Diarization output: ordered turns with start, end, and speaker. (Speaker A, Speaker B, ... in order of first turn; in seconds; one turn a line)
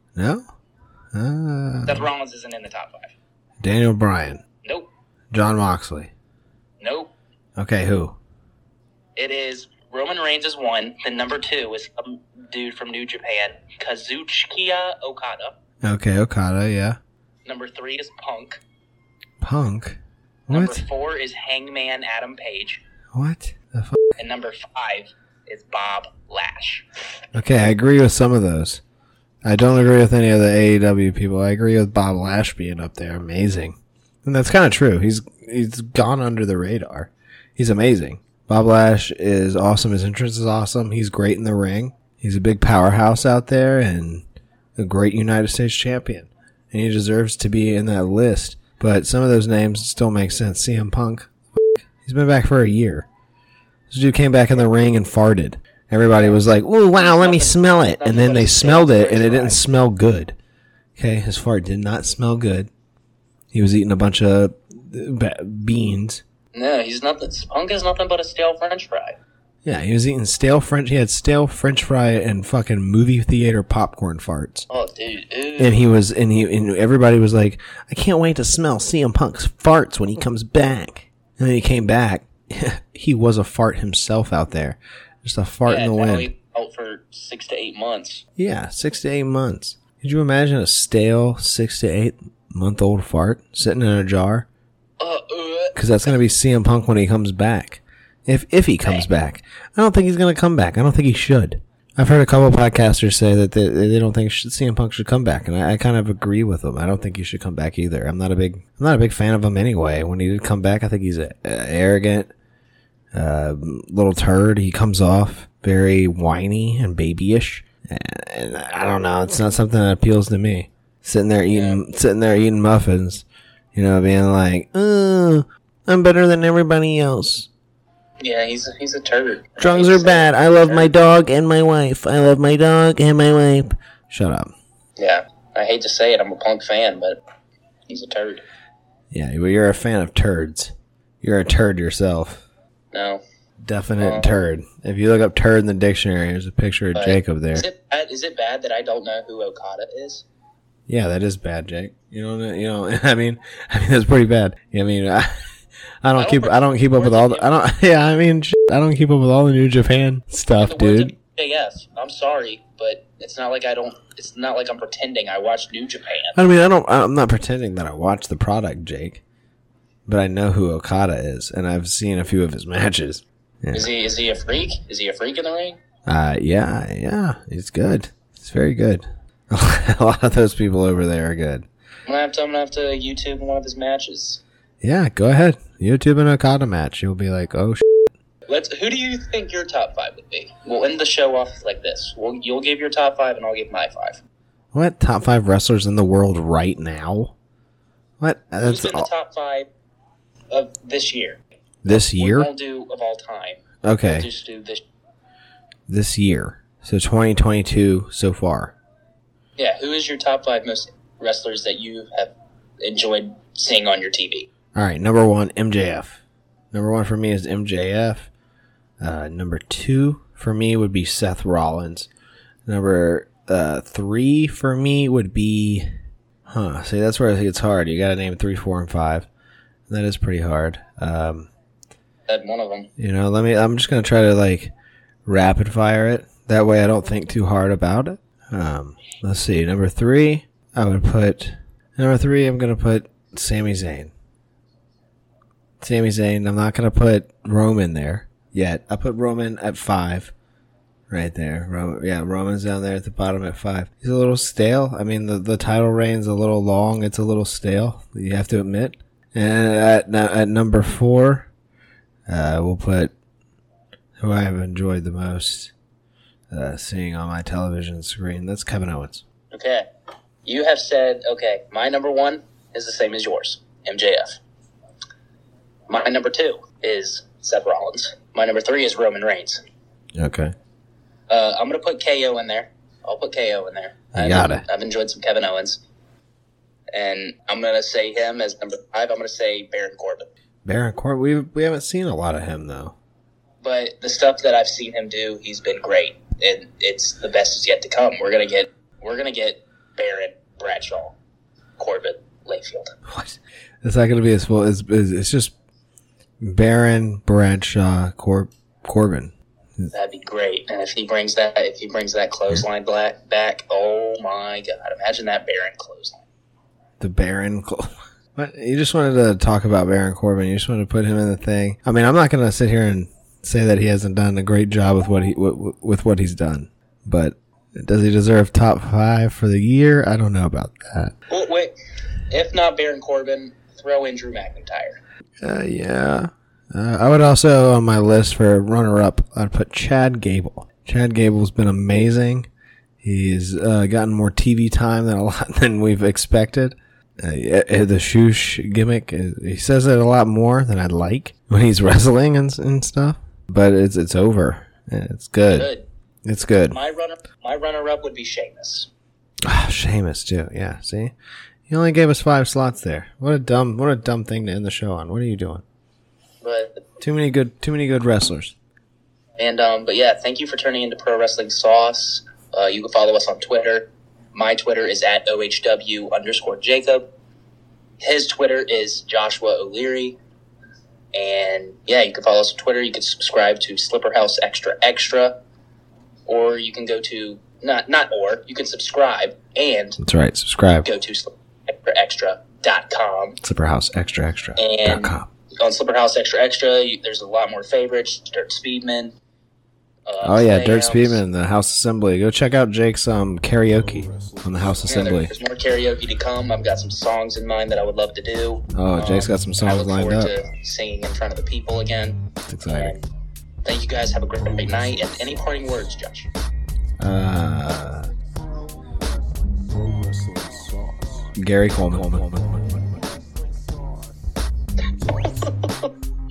Speaker A: 0.1-0.4
Speaker A: 1.1-2.1
Speaker B: 1.8-3.1
Speaker A: 3.6-4.4
Speaker A: 5.3-6.1
Speaker B: 6.8-7.1
Speaker A: 7.6-8.2
Speaker B: 9.2-15.6
Speaker A: 15.8-17.0
Speaker B: 17.4-18.6
Speaker A: 19.4-20.8
Speaker B: 20.5-22.8
Speaker A: 23.1-24.1
Speaker B: 24.2-26.9
Speaker A: 27.3-28.8
Speaker A: 29.4-44.2
Speaker A: 44.8-53.1
Speaker A: 53.9-60.3
Speaker B: 56.2-56.4
Speaker B: 57.0-59.6
Speaker A: 61.0-62.7
Speaker A: 63.5-66.2
Speaker B: 66.5-69.2
Speaker A: 69.6-74.7
Speaker B: 74.7-75.8
Speaker A: 75.6-86.3
Speaker B: 85.7-88.2
Speaker A: 88.4-94.5
Speaker B: 95.0-95.8
Speaker A: 95.7-112.3
Speaker A: 113.1-127.5
Speaker B: 121.5-121.8
Speaker B: 128.2-130.9
Speaker A: 129.6-134.5
Speaker B: 135.0-137.2
Speaker B: 137.9-138.4
Speaker A: 139.1-142.4
Speaker B: 142.9-143.2
Speaker A: 143.6-147.7
Speaker B: 144.0-144.3
Speaker B: 146.9-150.2
Speaker A: 150.9-155.3
Speaker A: 156.0-161.1
Speaker B: 156.1-157.5
Speaker B: 160.6-166.4
Speaker A: 166.3-169.2
Speaker A: 170.1-173.9
Speaker B: 173.7-175.8
Speaker A: 176.1-181.7
Speaker B: 182.1-184.4
Speaker A: 184.8-188.1
Speaker B: 188.5-194.2
Speaker A: 194.7-197.3
Speaker A: 198.2-199.1
Speaker B: 198.6-199.7
Speaker B: 200.5-204.8
Speaker A: 201.8-202.5
Speaker A: 203.8-204.3
Speaker A: 205.9-208.7
Speaker B: 209.6-214.5
Speaker A: 214.7-216.2
Speaker A: 216.7-218.3
Speaker A: 219.0-222.1
Speaker A: 222.7-225.9
Speaker A: 226.5-229.3
Speaker A: 229.9-231.5
Speaker B: 232.3-232.9
Speaker A: 233.0-234.7
Speaker A: 235.2-244.1
Speaker A: 245.8-250.3
Speaker A: 251.1-261.5
Speaker A: 262.3-263.1
Speaker A: 264.2-265.7
Speaker A: 266.5-269.2
Speaker B: 269.5-269.9
Speaker B: 270.4-274.4
Speaker B: 275.9-279.6
Speaker A: 280.1-280.5
Speaker B: 281.3-285.8
Speaker A: 284.1-284.6
Speaker B: 286.9-290.3
Speaker A: 290.6-292.9
Speaker B: 293.6-301.2
Speaker B: 301.8-302.9
Speaker A: 303.1-305.5
Speaker A: 306.4-309.9
Speaker B: 309.9-316.2
Speaker A: 317.0-331.1
Speaker B: 331.3-331.7
Speaker B: 332.3-335.0
Speaker A: 335.4-342.5
Speaker A: 343.0-355.7
Speaker B: 355.5-355.8
Speaker A: 356.2-356.8
Speaker B: 356.7-358.9
Speaker A: 359.4-361.1
Speaker A: 361.7-365.6
Speaker B: 366.4-366.8
Speaker A: 367.0-368.5
Speaker B: 369.4-377.1
Speaker B: 378.0-380.2
Speaker B: 381.1-385.3
Speaker B: 386.3-390.0
Speaker A: 390.0-390.9
Speaker B: 390.8-393.4
Speaker A: 393.4-395.3
Speaker B: 394.6-399.1
Speaker B: 400.1-401.2
Speaker A: 400.2-405.3
Speaker C: 403.7-405.2
Speaker B: 404.9-408.6
Speaker A: 408.7-410.3
Speaker B: 409.6-412.2
Speaker A: 412.5-412.9
Speaker B: 412.7-413.0
Speaker B: 413.6-416.3
Speaker A: 417.0-418.1
Speaker C: 419.4-421.3
Speaker A: 421.4-422.6
Speaker C: 421.9-424.1
Speaker C: 424.8-425.5
Speaker B: 425.4-425.7